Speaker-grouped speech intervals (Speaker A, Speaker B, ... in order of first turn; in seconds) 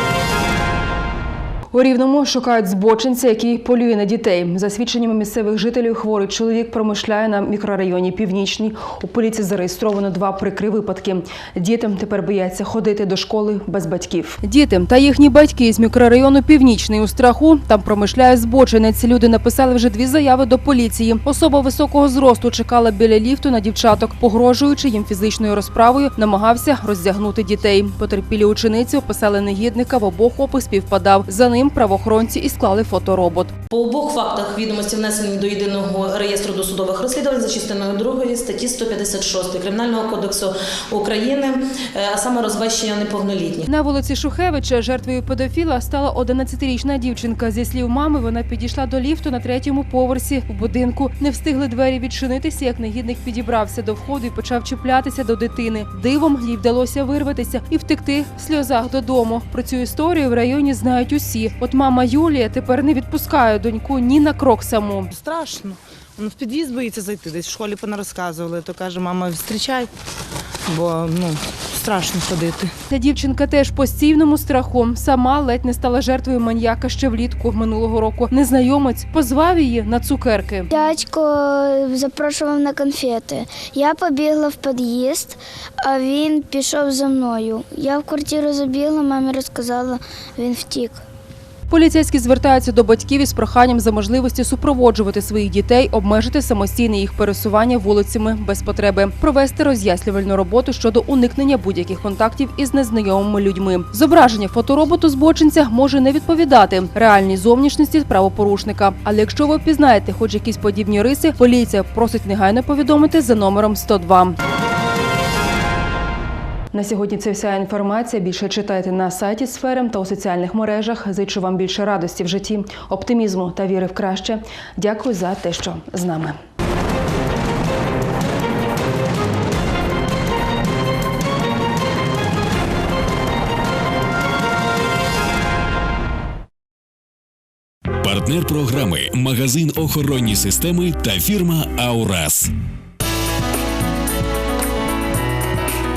Speaker A: 1.7-33.5, 43.7-65.1, 72.9-80.7, 91.7-114.4, 116.7-126.3
Speaker B: 33.7-43.7
Speaker C: 65.1-69.9, 70.7-72.7
Speaker D: 80.7-91.0
Speaker E: 138.0-142.5